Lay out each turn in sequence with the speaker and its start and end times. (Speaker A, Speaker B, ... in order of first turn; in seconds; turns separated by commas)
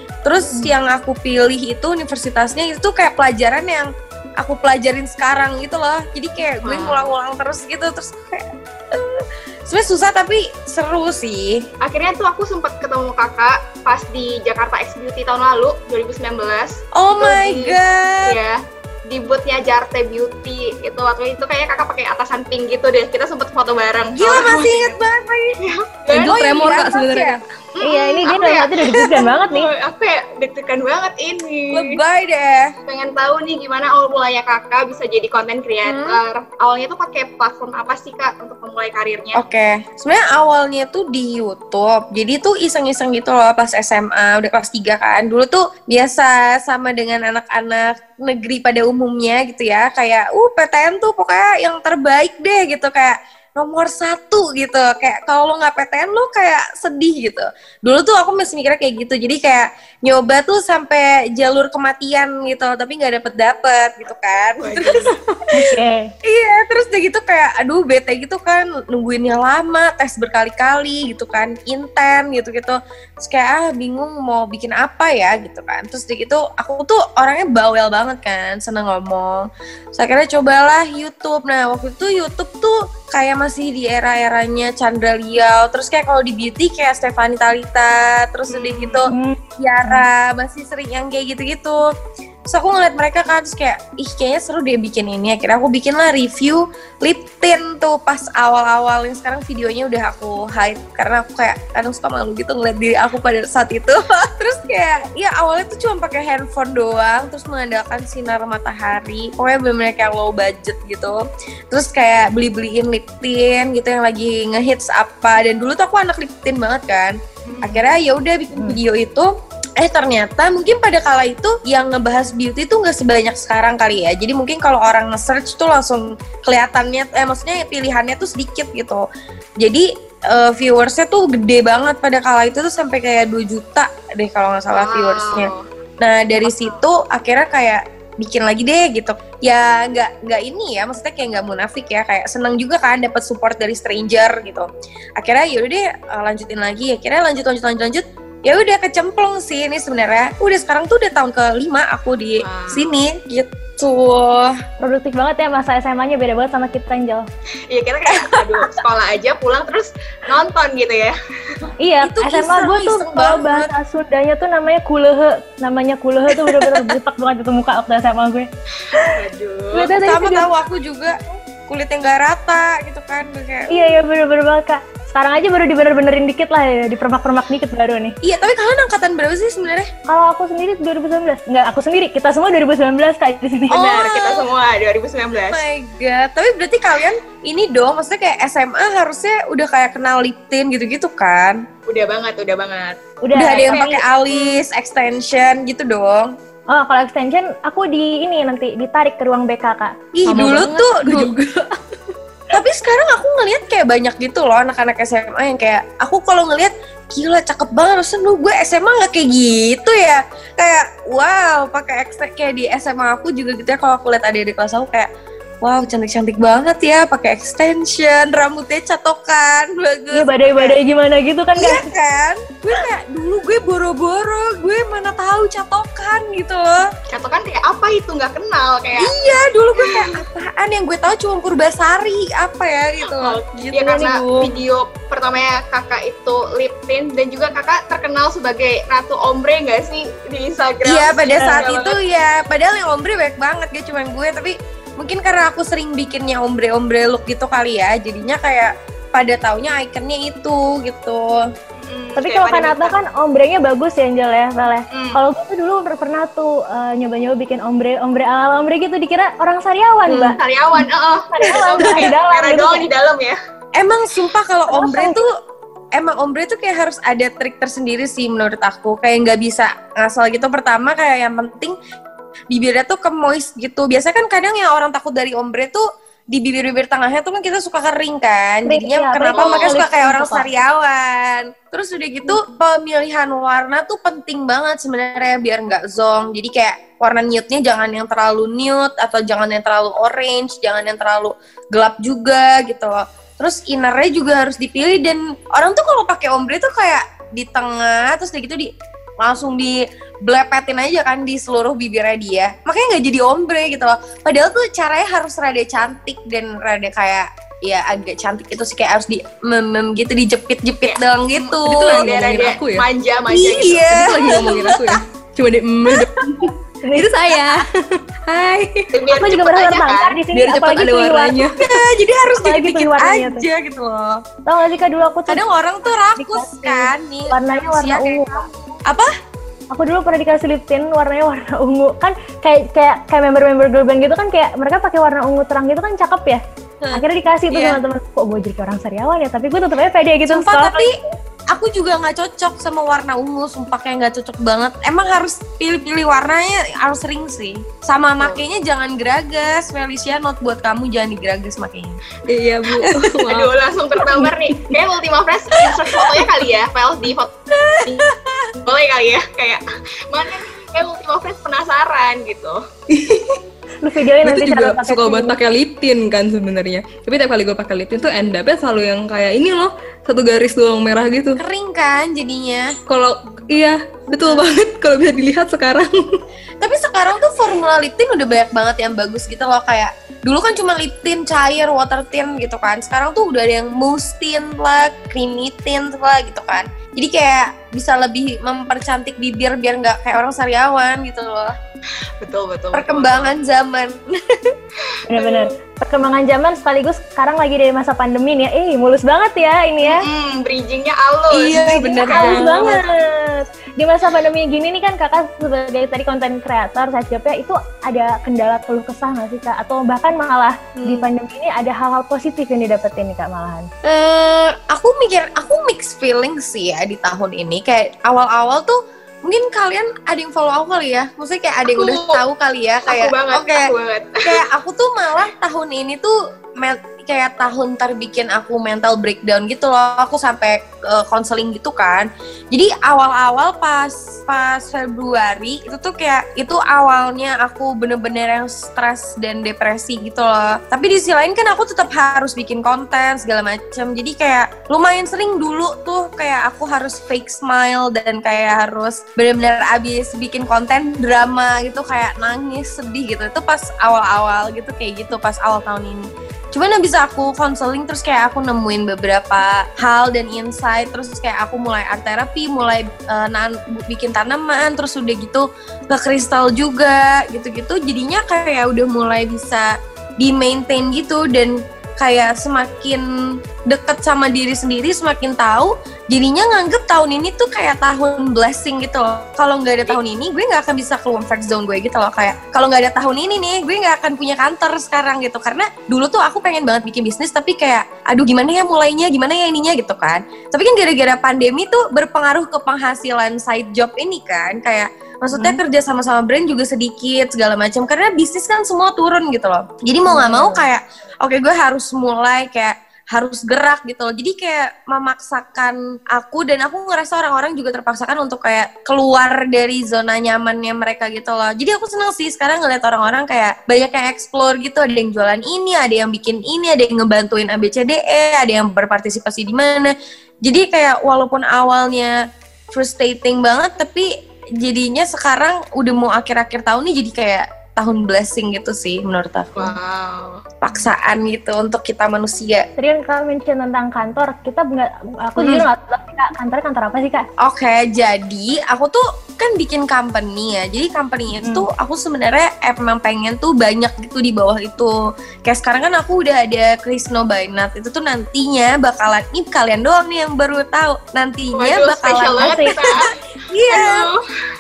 Speaker A: 0.2-11.7, Speaker B: 0.4-0.8, Speaker C: 6.6-7.1, Speaker C: 11.8-25.0, Speaker A: 16.9-18.4, Speaker A: 24.2-25.6, Speaker C: 25.6-26.4, Speaker A: 26.1-27.4, Speaker D: 26.1-27.4, Speaker C: 27.8-32.0, Speaker B: 27.8-29.7, Speaker A: 31.7-32.7, Speaker C: 32.9-39.4, Speaker A: 35.9-36.2, Speaker A: 39.4-65.2, Speaker C: 64.6-65.1, Speaker B: 65.5-66.1, Speaker A: 66.2-91.9, Speaker C: 88.5-89.0, Speaker B: 89.1-90.0, Speaker A: 92.5-129.1, Speaker C: 117.5-117.9, Speaker A: 129.6-154.6, Speaker C: 134.7-135.6, Speaker C: 136.4-136.8, Speaker C: 152.4-152.9, Speaker B: 154.8-157.3, Speaker C: 157.7-161.2, Speaker A: 158.1-158.7, Speaker B: 161.8-169.2, Speaker A: 162.0-163.7, Speaker A: 166.3-166.9, Speaker C: 168.9-169.9, Speaker B: 169.7-170.5, Speaker A: 170.0-173.9, Speaker B: 173.7-178.1, Speaker A: 178.2-179.9, Speaker B: 180.1-183.8, Speaker A: 183.7-184.5, Speaker C: 183.7-185.6, Speaker A: 185.5-191.6, Speaker C: 191.9-194.6, Speaker B: 193.2-193.9, Speaker A: 193.3-196.3, Speaker B: 196.7-200.5, Speaker A: 200.1-201.3, Speaker D: 200.3-201.8, Speaker A: 202.5-215.1, Speaker A: 215.6-220.8, Speaker B: 220.1-221.9, Speaker A: 221.6-226.8, Speaker C: 227.1-229.2, Speaker A: 229.0-234.2, Speaker C: 229.8-230.2, Speaker C: 233.1-242.0, Speaker B: 233.8-234.5, Speaker A: 240.8-251.4, Speaker B: 241.4-241.7, Speaker C: 251.8-253.0, Speaker B: 252.2-260.4, Speaker C: 254.9-255.2, Speaker A: 260.1-260.4, Speaker C: 260.4-263.4, Speaker B: 261.3-262.9, Speaker A: 261.5-262.1, Speaker A: 263.8-265.3, Speaker B: 264.7-265.2, Speaker A: 266.0-271.8, Speaker A: 272.5-312.1, Speaker B: 278.7-280.5, Speaker C: 279.3-279.8, Speaker C: 310.8-314.4, Speaker D: 311.6-312.9, Speaker A: 313.3-314.9, Speaker D: 313.9-318.9, Speaker A: 315.9-316.2, Speaker B: 316.8-317.4, Speaker C: 318.9-320.2, Speaker B: 319.1-321.6, Speaker D: 320.3-321.8, Speaker A: 321.6-324.2, Speaker B: 322.3-323.5, Speaker B: 324.5-325.4, Speaker A: 325.3-329.1, Speaker B: 326.2-328.5, Speaker B: 329.7-336.4, Speaker A: 336.8-337.8, Speaker B: 336.9-341.1, Speaker A: 340.3-340.9, Speaker A: 341.5-352.0, Speaker D: 352.3-353.5, Speaker C: 353.2-362.6, Speaker D: 354.1-354.8, Speaker D: 362.9-363.4, Speaker B: 363.8-365.4, Speaker D: 364.2-371.4, Speaker A: 371.4-372.8, Speaker D: 372.9-376.2, Speaker A: 376.6-391.6, Speaker C: 392.2-393.3, Speaker A: 392.7-394.5, Speaker C: 394.8-395.4, Speaker B: 395.1-400.1, Speaker C: 399.8-402.8, Speaker A: 401.3-402.8, Speaker B: 401.6-413.7, Speaker A: 410.8-411.1, Speaker A: 413.8-423.7, Speaker C: 421.7-422.2, Speaker C: 422.9-424.4, Speaker A: 424.2-473.1, Speaker A: 473.7-522.2, Speaker B: 495.3-495.6, Speaker B: 500.1-500.6, Speaker A: 522.7-524.1, Speaker A: 524.6-529.8, Speaker C: 529.6-530.4, Speaker A: 530.6-532.7, Speaker B: 532.8-537.3, Speaker A: 535.4-535.7, Speaker A: 537.4-553.0, Speaker C: 551.5-553.1, Speaker B: 552.4-553.0, Speaker A: 553.5-554.1, Speaker C: 553.7-554.2